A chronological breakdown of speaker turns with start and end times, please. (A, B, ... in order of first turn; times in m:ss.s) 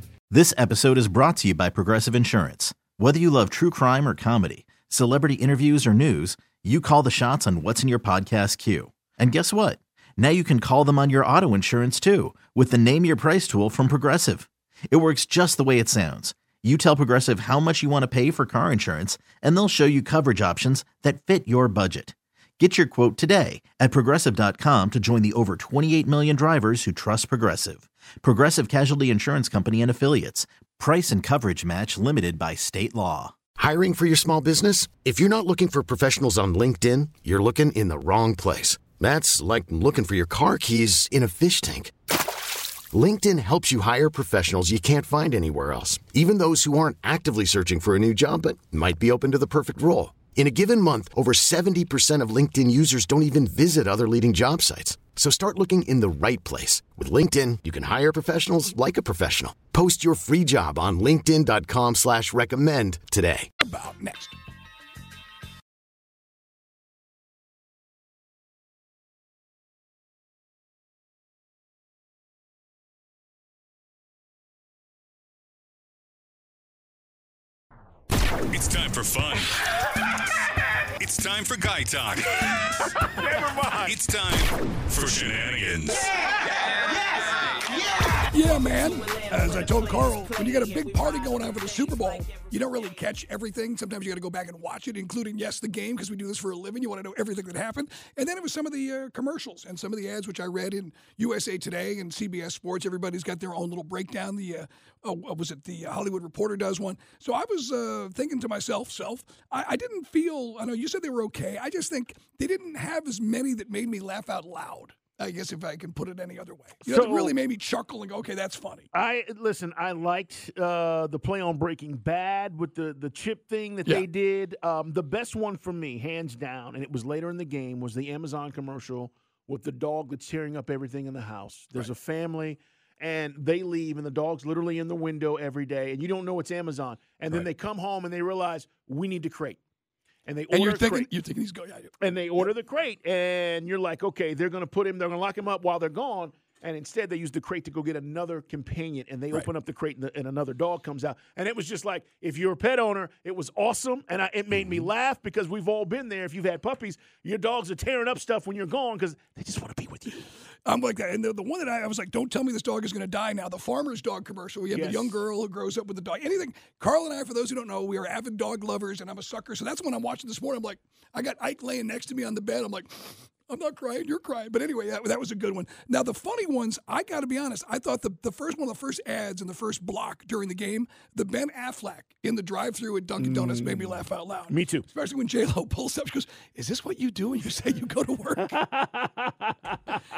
0:00.3-0:33.3 A
0:33.6-0:41.9 B
0:42.9-1:03.5 B
1:03.6-1:04.4 C
1:18.5-1:19.5 D
1:21.0-1:22.7 D
1:23.0-1:24.0 E
1:23.8-1:26.1 D
1:26.9-1:27.9 E
1:28.3-1:58.9 C
1:56.8-1:57.4 E
1:58.9-2:19.6 E
2:20.3-2:21.1 E
2:20.5-2:22.5 C
2:22.0-2:40.2 E
2:40.6-3:08.6 C
2:44.7-2:45.2 E
3:03.2-3:04.9 E
3:08.4-3:10.0 E